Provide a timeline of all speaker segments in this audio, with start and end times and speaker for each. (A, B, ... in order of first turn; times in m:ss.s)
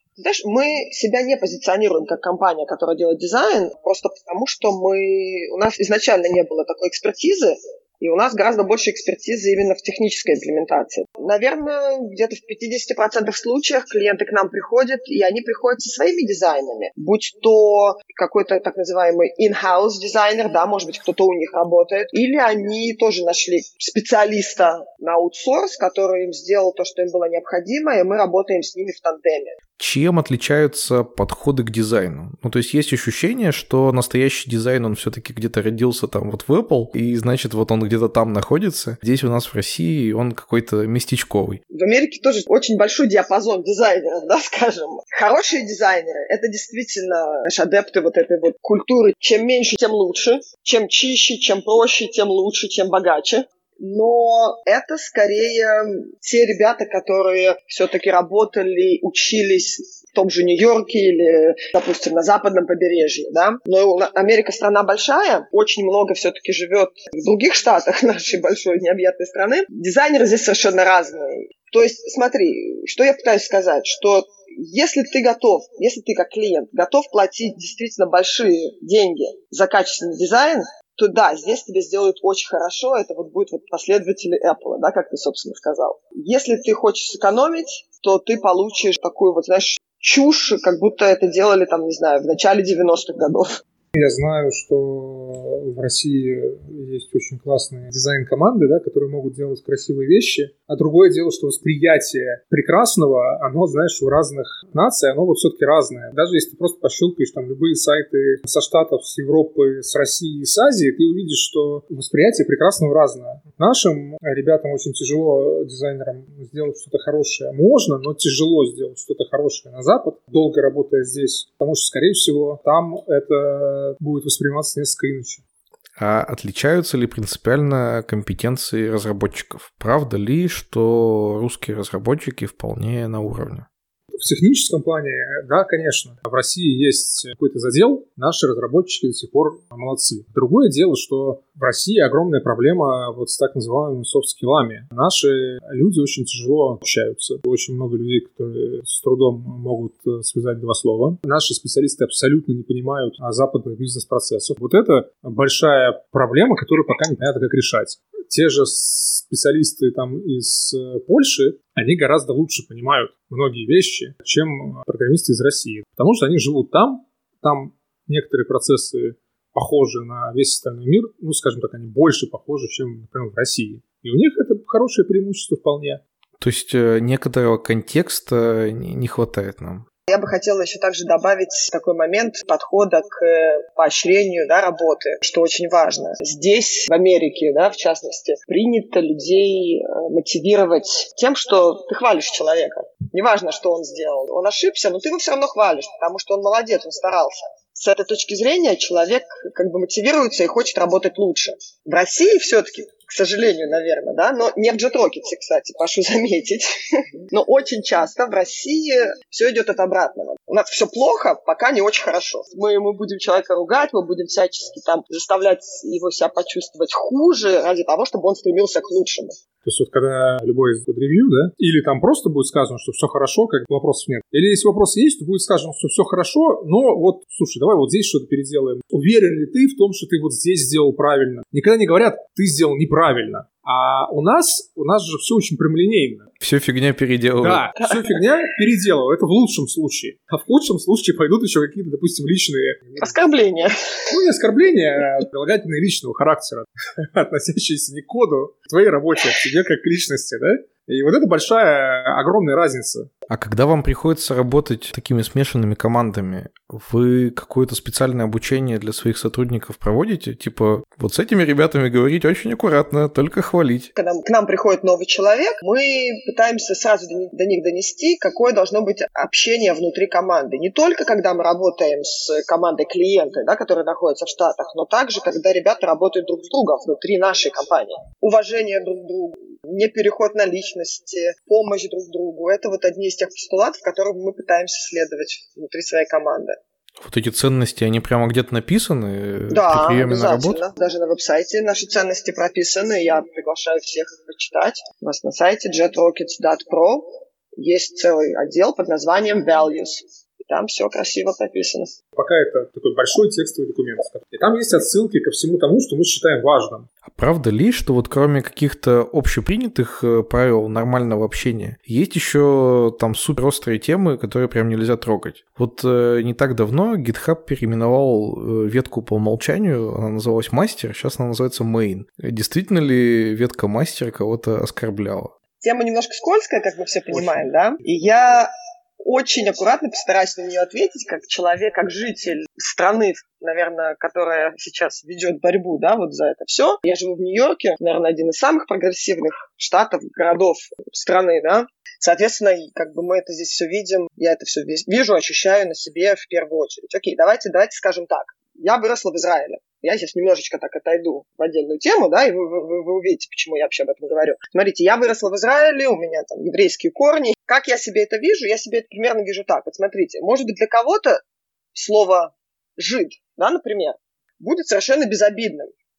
0:00.2-0:29.5 A
0:29.8-0:41.6 B
0:41.7-1:33.6 A
1:33.9-2:05.4 C
2:06.0-2:13.7 B
2:14.2-2:56.0 C
2:56.4-2:59.8 B
3:00.1-3:39.3 A
3:39.6-3:56.3 C
3:56.4-3:57.6 B
3:57.4-4:03.2 C
4:03.0-4:04.0 A
4:04.1-4:13.1 C
4:13.3-4:23.9 B
4:23.9-4:46.6 A
4:47.0-4:50.6 B
4:49.5-5:01.9 A
5:02.1-5:06.9 C
5:07.1-5:25.3 B
5:25.6-6:01.2 A
5:27.1-5:27.4 C
6:01.7-6:05.7 A